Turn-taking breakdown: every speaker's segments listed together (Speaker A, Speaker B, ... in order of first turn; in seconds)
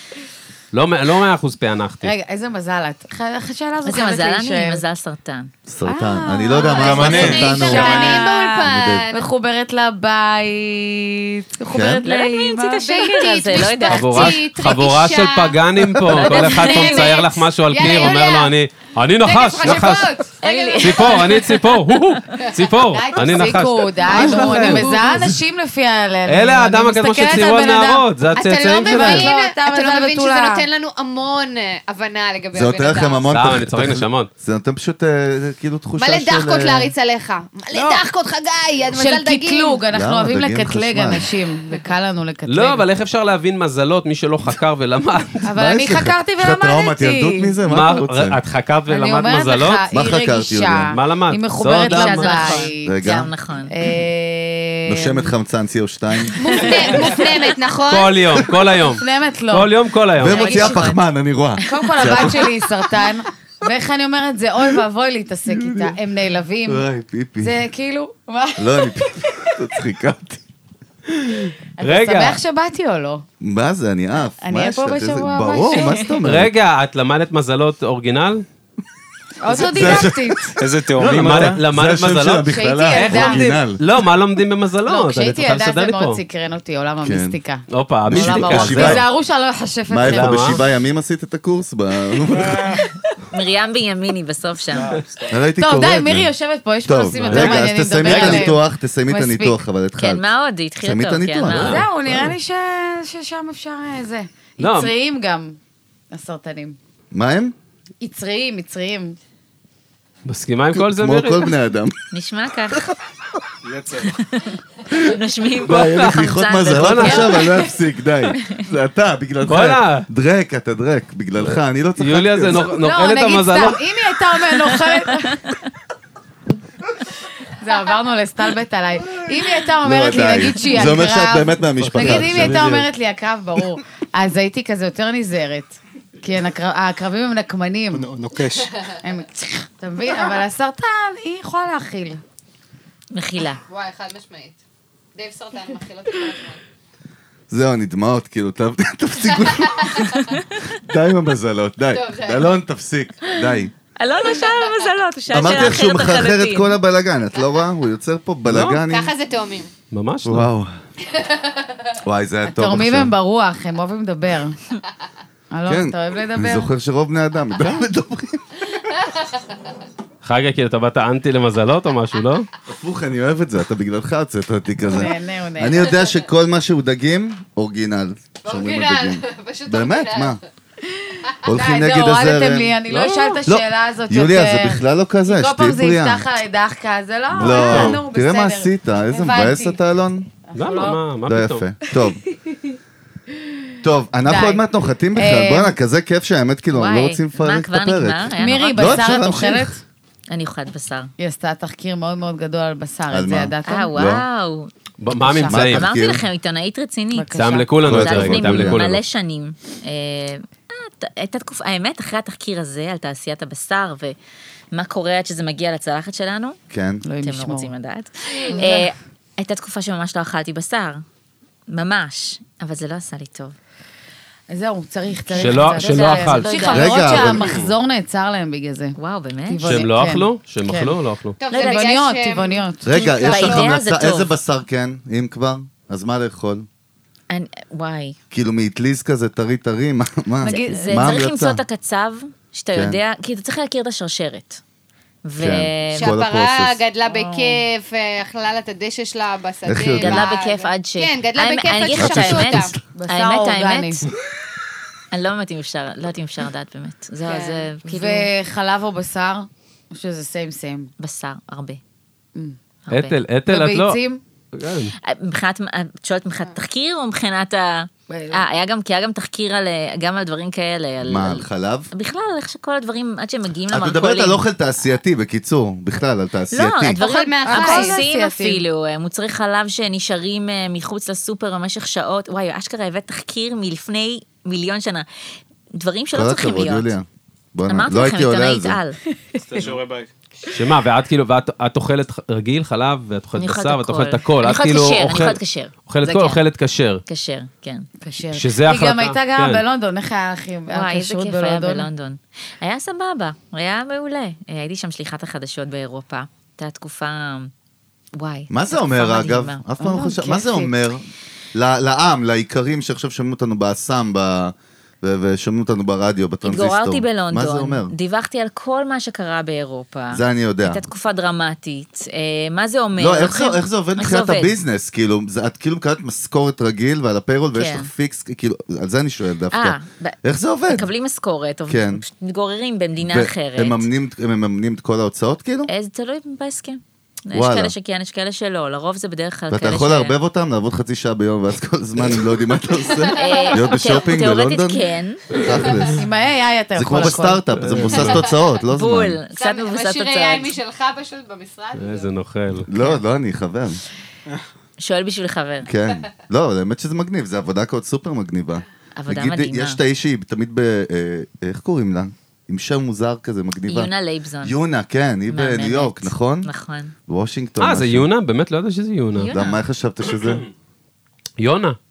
Speaker A: 0.7-2.1, 13.9-20.1, 20.8-25.2, 26.3-29.3, 33.3-34.3, 37.7-38.0, 42.5-45.5, 47.7-49.8, 50.9-52.7, 57.8-60.7, 71.1-72.4, 76.2-78.5, 81.0-86.2, 87.7-89.0, 90.1-90.6, 97.1-98.6, 101.5-101.9, 104.6-104.9, 110.2-111.5, 115.7-117.4, 119.5-120.1, 121.5-123.8, 131.8-132.9, 158.5-158.8, 159.9-160.5, 170.2-172.5, 182.9-183.4, 187.4-188.0, 190.6-191.7, 205.0-205.8, 207.3-209.0, 225.4-226.5, 227.3-227.7, 229.7-231.4, 262.9-264.0, 264.5-264.9, 290.5-297.0, 298.3-299.6, 347.6-348.1, 351.8-352.7, 367.6-369.3, 371.4-371.8
Speaker B: 2.0-4.8, 5.9-14.2, 17.8-18.1, 19.6-20.0, 22.9-28.1, 28.6-30.7, 38.9-42.9, 45.5-47.6, 48.9-53.0, 53.7-55.3, 56.5-57.4, 58.9-59.7, 61.6-66.8, 67.4-69.6, 71.8-73.2, 74.4-76.2, 79.4-80.6, 82.5-83.5, 84.9-90.6, 95.6-99.6, 101.6-105.6, 106.1-106.8, 108.0-109.2, 122.5-125.5, 127.6-138.1, 139.0-142.2, 162.5-164.6, 165.5-166.7, 174.9-176.0, 180.9-189.8, 190.5-191.0, 192.0-192.6, 194.2-194.6, 195.2-195.8, 198.4-199.8, 201.2-203.9, 205.2-205.6, 207.1-207.7, 217.0-217.7, 218.3-218.9, 224.5-229.0, 229.5-231.0, 231.5-233.6, 240.4-241.2, 252.9-254.0, 257.3-260.9, 263.5-264.2, 268.1-268.4, 277.5-278.6, 298.0-301.9, 309.8-310.7, 345.9-347.4
Speaker C: 3.9-5.5, 6.8-8.2, 12.1-14.5, 16.1-17.2, 20.4-21.6, 51.9-53.7, 60.2-61.0, 93.2-95.0, 100.0-101.8, 112.1-112.9, 114.0-117.6, 143.1-143.6, 153.3-156.8, 196.7-199.1, 200.3-201.1, 203.7-204.7, 205.7-214.2, 214.7-216.6, 217.2-221.0, 221.7-223.6, 225.3-227.4, 229.0-229.8, 233.2-234.4, 237.3-238.2, 240.4-244.6, 245.2-246.2, 247.1-247.6, 250.0-254.1, 255.1-258.3, 261.0-261.8, 262.9-263.2, 265.0-274.4, 276.5-285.1, 285.7-286.9, 287.7-289.0, 293.4-296.4, 297.1-297.9, 300.7-307.5, 308.1-309.6, 316.4-324.6, 327.5-327.9, 329.5-333.9, 335.7-340.2, 343.1-345.2, 348.6-350.5, 354.8-355.7, 359.0-359.8, 363.7-364.6, 365.3-366.9, 369.2-369.6
Speaker D: 5.7-9.1, 11.7-12.0, 15.8-16.1, 24.1-25.4, 29.0-29.2, 32.5-36.9, 39.9-41.3, 45.6-48.4, 49.9-50.9, 52.8-53.3, 54.9-56.7, 60.2-62.5, 65.5-66.0, 66.7-67.6, 68.6-70.4, 73.4-76.5, 79.5-83.8, 87.0-87.4, 88.1-89.1, 89.9-92.8, 95.3-96.3, 96.8-100.3, 100.8-102.3, 107.1-107.5, 110.7-112.0, 115.7-122.7, 129.8-132.8, 147.5-153.7, 155.3-159.1, 160.2-160.8, 162.0-163.2, 165.7-168.8, 172.7-180.4, 181.4-182.8, 183.4-186.2, 187.3-190.3, 191.3-192.2, 193.8-199.8, 203.1-204.2, 205.5-206.2, 207.8-208.9, 216.7-217.0, 226.7-227.6, 232.8-236.7, 238.3-241.6, 242.7-243.0, 245.4-246.8, 249.7-250.3, 252.0-252.7, 271.0-271.9, 273.7-277.0, 286.1-288.8, 308.5-317.9, 320.1-320.9, 323.0-330.9, 331.7-332.0, 333.0-335.7, 337.3-337.7, 339.5-346.0, 346.8-349.2, 352.7-353.8, 355.6-363.9, 364.4-366.5, 367.1-368.1, 369.3-370.4
Speaker E: 6.8-7.5, 80.6-81.6, 94.7-95.3, 113.6-114.1, 137.9-138.7, 289.4-290.1
Speaker F: 7.2-9.3, 12.8-15.6, 16.3-18.6, 19.2-21.3, 22.6-25.2, 28.4-33.3, 36.0-39.8, 56.4-58.3, 138.5-138.9, 143.7-144.6, 145.2-146.6, 149.5-150.1, 151.9-152.5, 158.9-159.7, 178.4-180.4, 231.4-233.5, 245.9-252.8, 277.0-278.0, 342.9-343.6, 348.0-348.4, 349.3-352.1